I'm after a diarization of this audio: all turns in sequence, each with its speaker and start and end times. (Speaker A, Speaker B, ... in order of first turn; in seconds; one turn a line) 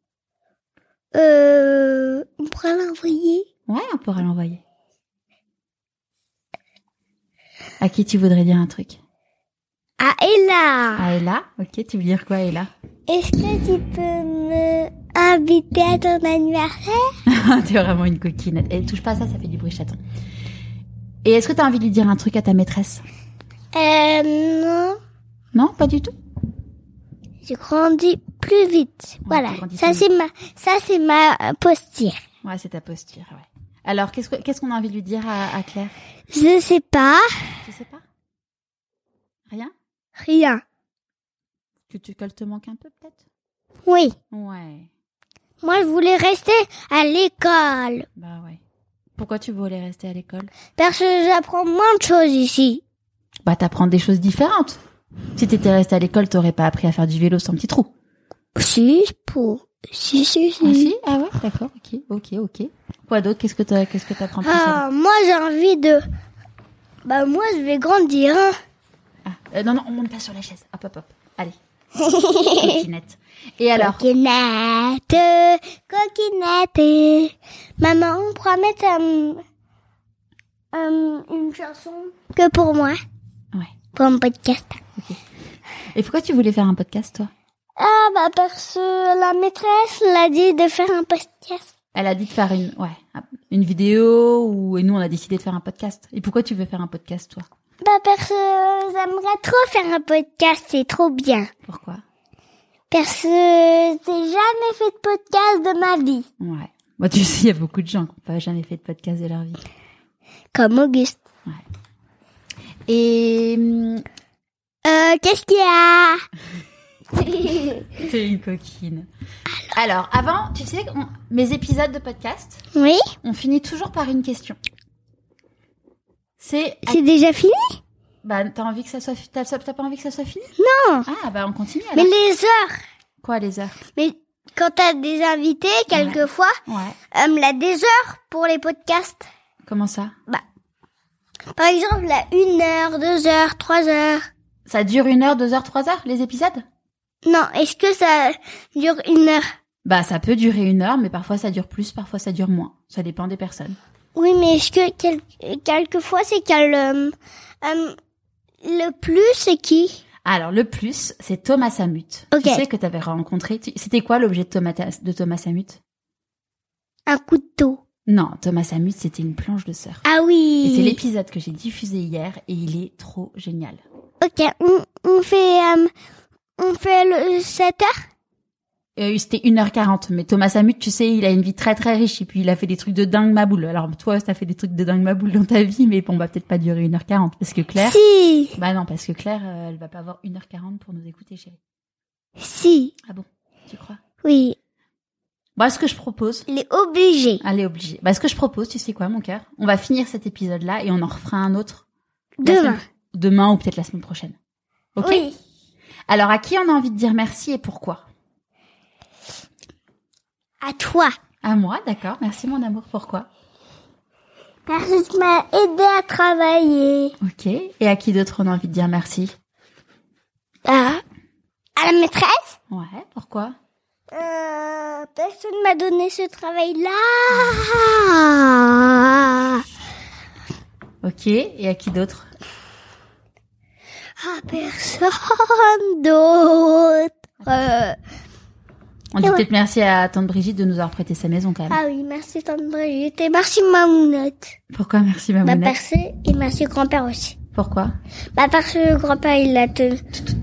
Speaker A: 1.1-3.5
Speaker B: 3.7-4.6
Speaker B: 7.8-9.0
Speaker A: 10.0-11.1
Speaker B: 11.0-12.7
Speaker A: 13.1-17.1
Speaker B: 17.3-20.0
Speaker B: 21.2-23.0
Speaker A: 23.7-25.0
Speaker B: 25.5-26.1
Speaker A: 27.4-32.2
Speaker B: 29.2-30.1
Speaker B: 32.4-35.9
Speaker A: 36.3-37.6
Speaker B: 37.6-38.0
Speaker A: 40.2-40.6
Speaker B: 41.9-43.2
Speaker A: 43.9-44.1
Speaker B: 44.3-44.9
Speaker A: 45.6-48.0
Speaker B: 48.2-48.6
Speaker B: 49.2-50.5
Speaker A: 50.8-52.8
Speaker B: 53.4-54.8
Speaker B: 55.4-57.9
Speaker A: 58.5-60.9
Speaker B: 60.6-64.8
Speaker A: 64.4-66.0
Speaker A: 67.0-68.5
Speaker B: 69.2-71.6
Speaker A: 72.0-72.8
Speaker B: 72.5-74.0
Speaker A: 73.7-79.4
Speaker A: 80.7-83.0
Speaker A: 83.9-84.8
Speaker B: 85.9-87.3
Speaker A: 87.8-91.7
Speaker B: 91.9-97.5
Speaker A: 97.8-101.5
Speaker B: 101.7-102.0
Speaker A: 102.9-106.3
Speaker B: 106.4-109.6
Speaker A: 110.5-111.2
Speaker B: 112.9-114.0
Speaker A: 114.8-116.2
Speaker A: 117.2-117.9
Speaker B: 118.0-119.1
Speaker B: 119.7-122.6
Speaker A: 122.7-123.1
Speaker B: 123.2-124.6
Speaker B: 126.4-127.0
Speaker A: 126.8-127.8
Speaker B: 128.2-130.5
Speaker A: 130.6-131.1
Speaker B: 131.0-132.1
Speaker A: 131.9-132.8
Speaker B: 133.2-133.8
Speaker A: 133.9-136.6
Speaker B: 135.9-136.9
Speaker A: 137.1-139.2
Speaker B: 139.6-140.1
Speaker A: 141.6-144.3
Speaker B: 144.7-146.6
Speaker A: 147.2-149.4
Speaker B: 149.8-153.8
Speaker A: 154.1-157.9
Speaker A: 158.6-160.0
Speaker B: 160.2-165.8
Speaker A: 162.3-162.6
Speaker A: 167.1-167.8
Speaker B: 168.1-170.0
Speaker A: 170.0-171.0
Speaker B: 170.6-173.8
Speaker A: 174.2-175.9
Speaker A: 176.6-177.9
Speaker B: 179.0-188.0
Speaker A: 187.8-188.6
Speaker B: 188.5-191.6
Speaker A: 192.4-192.9
Speaker B: 193.1-194.0
Speaker A: 194.2-194.6
Speaker B: 195.6-196.4
Speaker A: 196.5-197.4
Speaker B: 197.4-201.8
Speaker A: 202.4-202.8
Speaker B: 202.4-204.3
Speaker B: 204.9-205.2
Speaker A: 205.0-205.3
Speaker B: 206.1-208.0
Speaker A: 210.6-211.1
Speaker B: 211.4-213.3
Speaker A: 214.7-217.1
Speaker B: 217.2-219.3
Speaker A: 220.7-221.0
Speaker A: 221.8-222.6
Speaker B: 222.7-223.5
Speaker A: 224.1-229.6
Speaker B: 227.3-227.6
Speaker B: 231.0-232.3
Speaker A: 234.2-237.9
Speaker B: 239.1-241.8
Speaker A: 241.7-244.5
Speaker B: 244.7-245.8
Speaker A: 245.4-247.4
Speaker B: 247.5-247.9
Speaker A: 248.3-250.2